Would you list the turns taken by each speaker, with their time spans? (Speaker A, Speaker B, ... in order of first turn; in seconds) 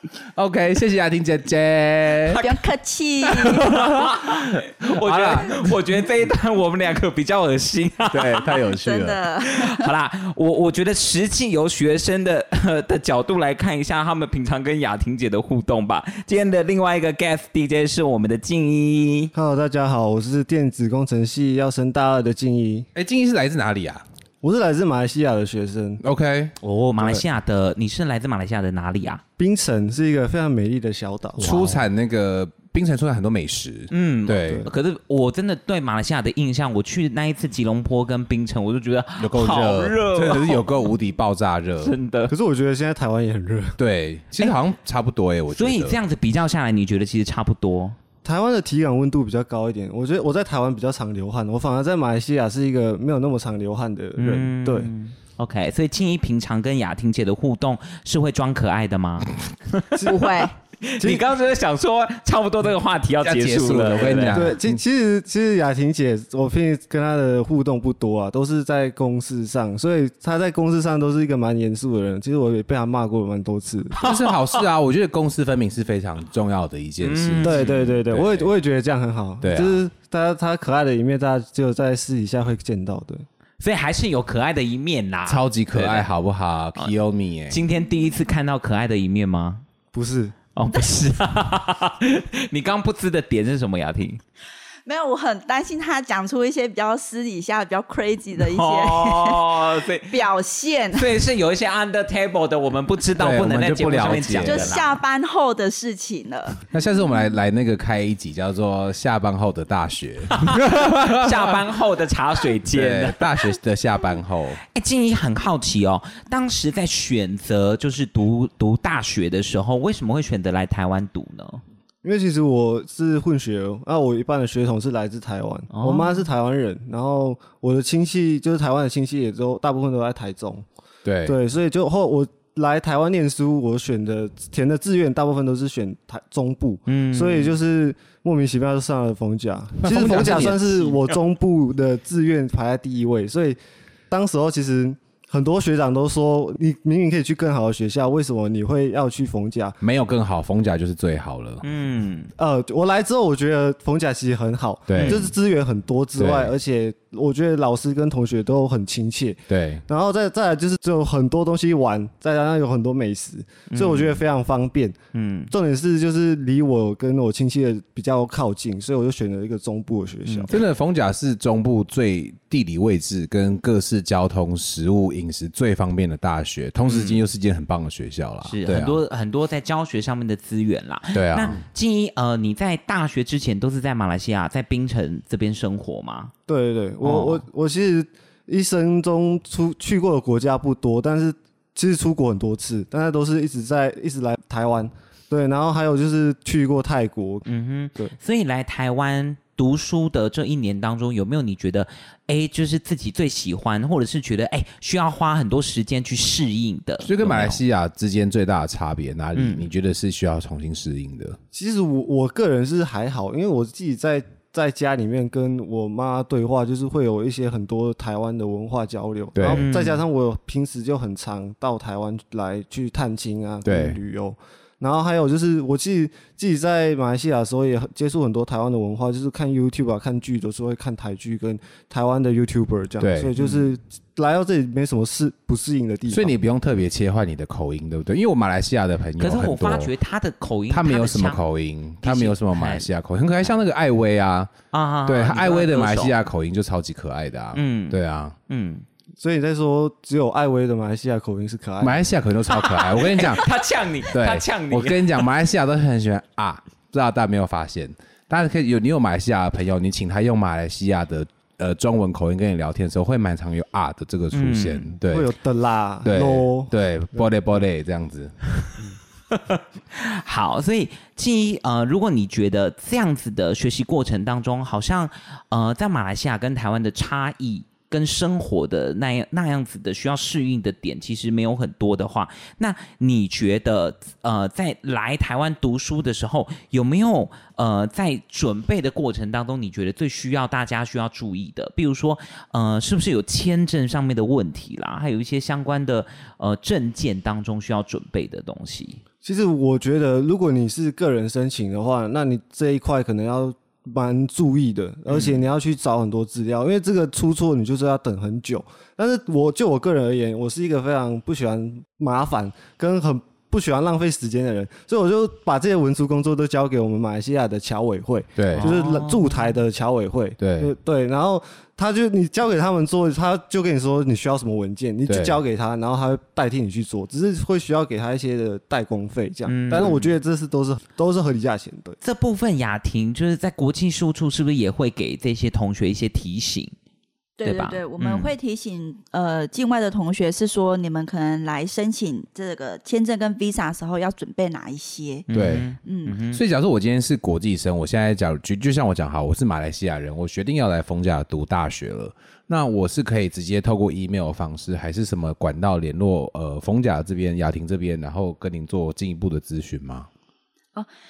Speaker A: 0.3-2.4, 3.3-5.7, 8.1-9.2, 22.9-24.0, 26.0-26.6, 31.4-34.7, 39.2-41.9, 43.8-46.0, 63.2-64.8, 74.0-78.5, 79.4-79.8, 85.2-87.6, 103.1-104.8, 106.7-111.6, 112.7-114.6, 131.0-131.3, 139.8-140.9, 149.8-151.6, 154.9-155.3, 156.2-156.5, 159.5-159.8, 170.5-179.0, 181.1-181.6, 207.0-211.4, 219.3-219.6, 223.6-224.0, 233.0-233.3, 236.1-239.9, 240.7-244.5, 245.1-248.3, 251.8-265.3, 266.0-268.3, 318.4-318.7, 320.4-320.7, 325.1-325.4, 345.3-345.7, 346.3-360.1
Speaker B: 2.4-3.9, 8.7-9.8, 60.0-60.5, 94.8-101.2, 104.4-106.6, 337.4-345.2, 345.8-346.2
Speaker C: 3.8-8.5, 9.4-19.3, 26.6-29.2, 33.9-40.9, 41.8-42.3, 45.5-48.0, 54.2-60.1, 60.8-64.5, 74.0-74.6, 77.0-77.9, 83.6-86.1, 87.5-89.6, 90.5-94.2, 98.3-100.3, 100.9-105.0, 110.3-113.6, 114.7-121.6, 125.7-126.3, 136.9-137.5, 140.1-141.0, 151.6-152.3, 154.9-155.3, 163.7-164.2, 165.1-165.5, 170.3-170.5, 176.8-177.2, 178.4-186.3, 187.0-187.4, 197.5-207.6, 209.3-209.7, 219.5-220.0, 233.4-233.6, 239.2-241.4, 242.0-242.9, 244.7-246.1, 247.5-248.8, 252.5-255.2, 264.3-264.9, 269.3-299.0, 305.1-305.4, 318.5-319.6, 329.5-330.1, 332.0-336.7, 337.4-338.3, 345.3-346.4
Speaker D: 19.3-22.9, 24.4-26.0, 26.9-27.2, 29.4-31.8, 34.4-34.7, 42.3-43.8, 48.2-54.9, 59.9-60.3, 61.0-61.2, 64.3-74.0, 77.4-83.2, 89.9-90.3, 122.0-130.6, 131.2-143.6, 144.1-149.8, 152.4-165.0, 165.5-170.5, 186.5-198.1, 211.5-236.3, 249.2-252.0, 265.1-267.2, 299.2-332.0